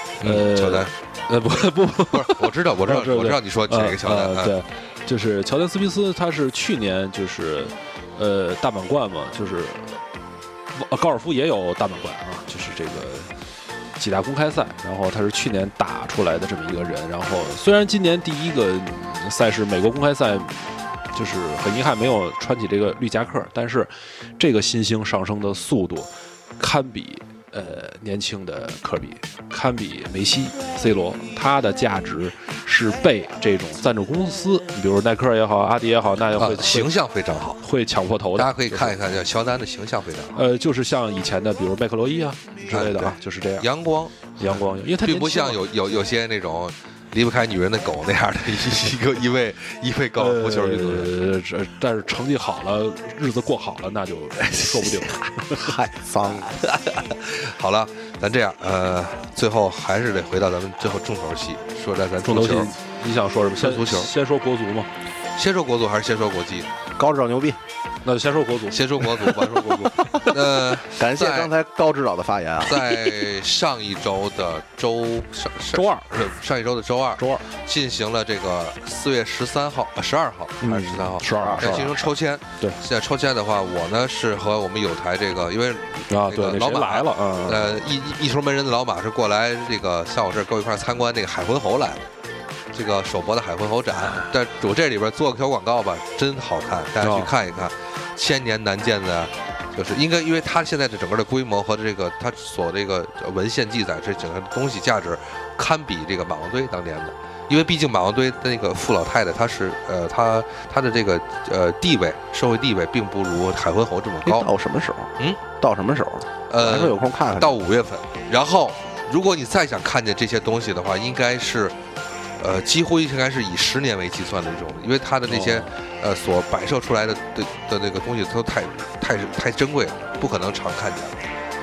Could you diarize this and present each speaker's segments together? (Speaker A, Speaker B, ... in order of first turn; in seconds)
Speaker A: 0.2-0.9, 2.1-4.5, 36.4-37.6, 38.3-40.4, 42.7-51.1, 56.2-62.7, 63.6-64.1, 65.3-66.7, 68.7-71.5, 72.6-92.0, 92.7-114.5, 116.5-121.8, 122.4-131.2
Speaker B: 0.2-10.0, 10.7-13.3, 14.0-36.9, 37.6-39.0, 40.3-43.7, 44.4-45.6, 50.1-55.6, 62.2-64.9, 68.0-70.3, 75.7-76.2, 77.2-77.5, 80.6-82.1, 86.1-87.8, 97.0-97.3, 125.3-125.7
Speaker C: 55.5-56.5, 67.0-67.6, 69.6-70.2, 70.9-73.0, 81.3-82.0, 114.2-117.6